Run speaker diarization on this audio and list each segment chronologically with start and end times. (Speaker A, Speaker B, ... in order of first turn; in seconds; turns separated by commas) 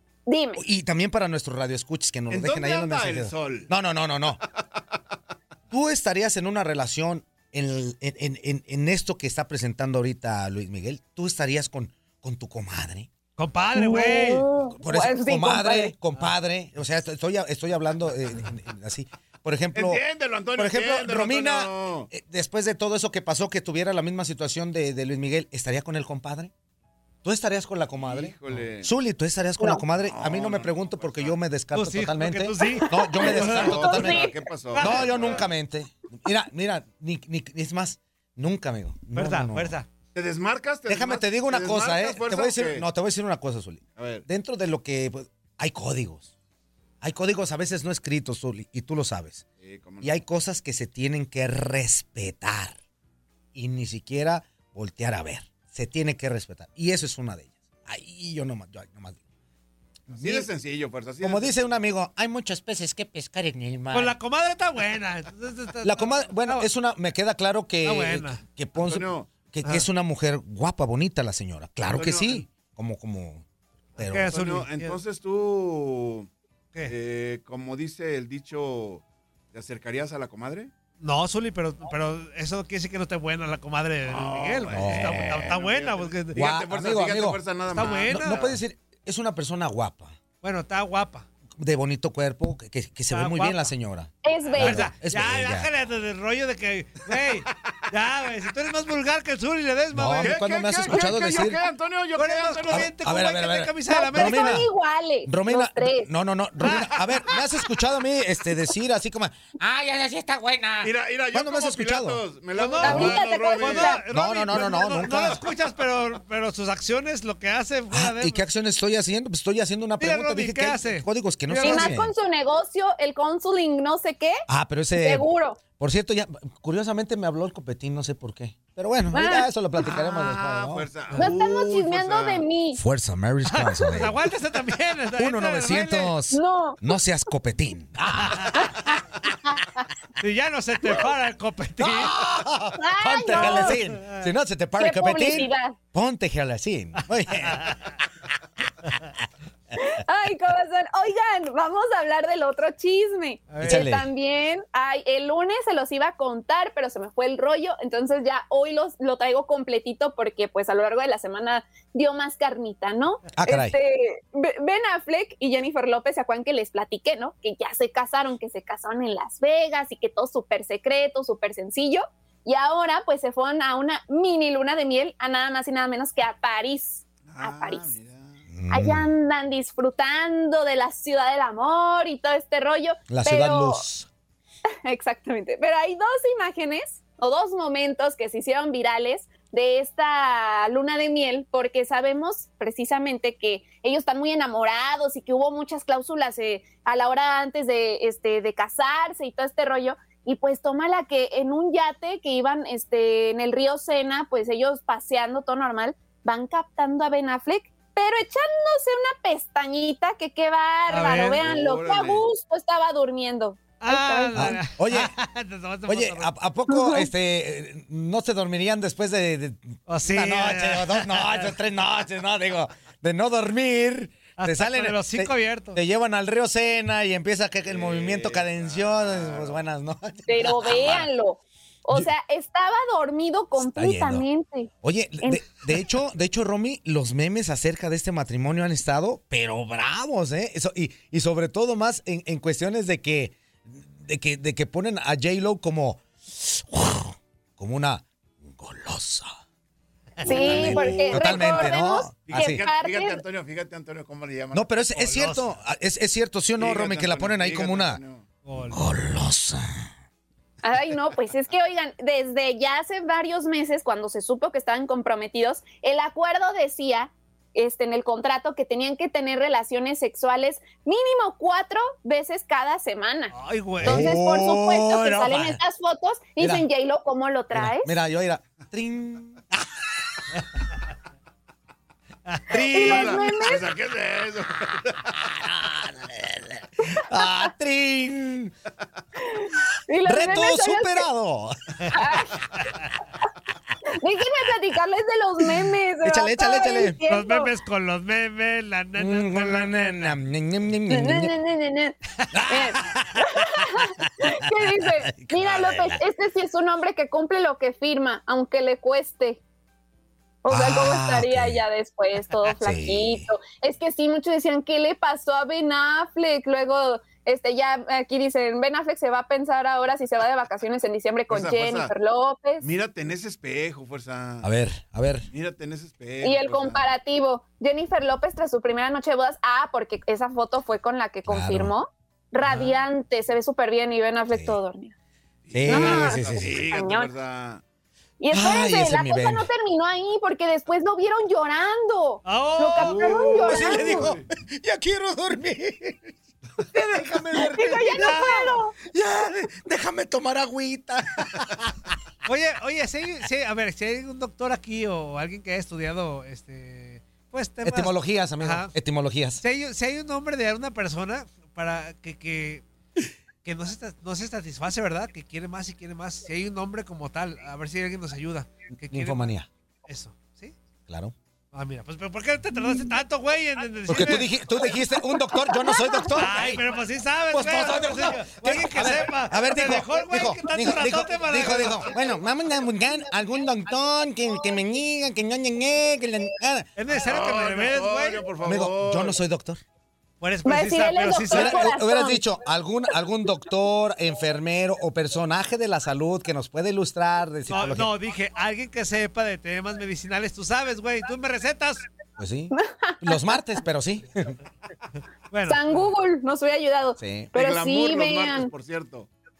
Speaker A: 0.3-0.6, Speaker B: 0.6-4.4, Speaker C: 2.3-3.7, Speaker B: 5.7-13.1, Speaker D: 13.4-14.4, Speaker A: 13.7-15.9, Speaker B: 14.8-20.0, Speaker C: 19.7-22.1, Speaker B: 20.6-26.5, Speaker B: 27.2-39.8, Speaker C: 28.0-28.9, Speaker C: 30.0-31.4, Speaker D: 31.7-33.9, Speaker A: 32.6-33.3, Speaker C: 33.2-35.5, Speaker A: 33.8-34.4, Speaker D: 34.7-35.1, Speaker D: 39.1-39.9, Speaker C: 40.1-42.9, Speaker B: 40.9-46.3, Speaker C: 44.0-44.2, Speaker B: 47.0-49.4, Speaker C: 49.6-50.1, Speaker B: 50.0-52.8, Speaker B: 53.5-59.2, Speaker C: 60.1-61.8, Speaker B: 60.1-60.5, Speaker B: 61.2-64.2, Speaker D: 63.9-66.6, Speaker B: 65.8-73.4, Speaker D: 67.8-68.4, Speaker C: 68.8-69.3, Speaker C: 71.9-72.4, Speaker B: 74.0-74.4, Speaker D: 74.0-75.0, Speaker C: 74.2-76.3, Speaker C: 76.8-80.7, Speaker D: 81.0-86.4, Speaker C: 84.1-88.6, Speaker B: 84.7-85.6, Speaker B: 86.3-90.2, Speaker D: 87.7-88.5, Speaker D: 90.4-91.3, Speaker B: 91.6-95.7, Speaker D: 93.1-93.6, Speaker A: 94.2-94.8, Speaker D: 94.4-100.4, Speaker B: 99.9-101.6, Speaker C: 100.2-102.9, Speaker D: 102.2-104.6, Speaker B: 102.7-104.7, Speaker A: 103.9-106.1, Speaker B: 105.2-112.2, Speaker D: 106.6-106.9, Speaker C: 110.8-114.0, Speaker D: 112.5-118.4, Speaker A: 112.8-114.0, Speaker B: 114.1-115.4, Speaker B: 117.9-122.1, Speaker D: 120.0-121.9, Speaker A: 121.6-124.4, Speaker B: 124.5-130.9, Speaker A: 124.9-125.6, Speaker A: 129.1-129.5, Speaker C: 129.8-132.4, Speaker A: 131.2-132.8, Speaker B: 132.7-134.2, Speaker D: 133.5-136.2, Speaker B: 135.2-138.7, Speaker A: 136.3-136.9, Speaker D: 138.2-138.6, Speaker A: 138.6-138.9, Speaker D: 140.2-142.1, Speaker B: 141.8-147.9, Speaker A: 142.8-143.8, Speaker D: 143.3-144.2, Speaker A: 144.8-145.8, Speaker A: 149.8-177.9, Speaker D: 153.5-153.8, Speaker B: 153.6-154.1, Speaker B: 163.3-163.8, Speaker C: 177.3-178.4, Speaker B: 178.5-179.1, Speaker A: 178.7-183.8, Speaker B: 183.1-184.1, Speaker A: 184.8-214.6, Speaker D: 210.9-211.4, Speaker C: 211.4-212.2, Speaker D: 213.8-216.3, Speaker B: 214.3-215.1, Speaker B: 215.9-231.1, Speaker A: 216.7-217.1, Speaker D: 219.9-221.4, Speaker D: 224.4-225.8, Speaker C: 227.6-229.6, Speaker A: 230.3-234.7, Speaker B: 233.6-234.2, Speaker B: 234.8-249.3, Speaker A: 235.2-235.5, Speaker D: 250.2-250.6, Speaker B: 250.2-252.6, Speaker A: 250.2-253.2, Speaker C: 250.6-251.7, Speaker C: 252.2-254.7, Speaker B: 254.5-258.0, Speaker D: 255.0-255.5, Speaker C: 256.6-258.2, Speaker D: 258.4-258.8, Speaker B: 258.7-259.9, Speaker A: 260.6-277.9, Speaker D: 273.3-274.1, Speaker B: 273.8-275.6, Speaker B: 276.4-276.6, Speaker B: 277.5-279.4, Speaker D: 282.2-283.1, Speaker B: 282.5-283.1, Speaker C: 282.6-285.2, Speaker A: 282.7-283.7, Speaker B: 285.3-288.5, Speaker A: 286.8-287.5, Speaker A: 289.2-291.1, Speaker B: 290.0-292.0, Speaker A: 291.9-292.4, Speaker A: 293.9-297.5, Speaker B: 296.0-297.0, Speaker D: 297.0-300.1, Speaker B: 298.9-301.3, Speaker A: 300.9-301.9, Speaker B: 302.3-306.0, Speaker A: 302.5-309.4, Speaker A: 310.4-322.6, Speaker B: 310.5-311.6, Speaker B: 312.6-313.3, Speaker C: 321.3-321.9, Speaker C: 322.6-324.5, Speaker B: 324.4-325.3, Speaker C: 325.3-326.9, Speaker A: 326.2-334.9, Speaker B: 331.2-331.7, Speaker D: 332.4-332.7, Speaker B: 334.3-334.6, Speaker C: 335.4-337.6, Speaker B: 335.5-336.7, Speaker D: 335.7-336.1, Speaker A: 335.7-337.1, Speaker A: 338.2-344.1, Speaker B: 338.3-339.5, Speaker D: 342.2-344.0, Speaker C: 342.8-344.3, Speaker B: 343.2-346.1, Speaker B: 346.7-351.7, Speaker A: 347.3-348.7, Speaker D: 347.9-348.4, Speaker D: 352.2-358.7, Speaker B: 357.6-359.4, Speaker D: 359.4-362.6, Speaker D: 363.4-369.3, Speaker B: 368.9-369.5, Speaker D: 369.9-370.5, Speaker B: 370.9-371.1, Speaker D: 371.5-374.3, Speaker B: 373.9-376.6, Speaker A: 375.2-376.1, Speaker D: 376.1-381.9, Speaker B: 377.3-386.7, Speaker D: 386.8-388.3, Speaker C: 387.0-389.2, Speaker B: 388.4-389.6, Speaker D: 390.2-391.7, Speaker A: 390.4-392.3, Speaker B: 391.3-397.9, Speaker D: 397.5-401.8, Speaker B: 402.2-404.4, Speaker A: 402.5-403.4, Speaker D: 405.3-405.8, Speaker A: 405.4-408.5, Speaker B: 407.0-407.3, Speaker C: 407.3-409.1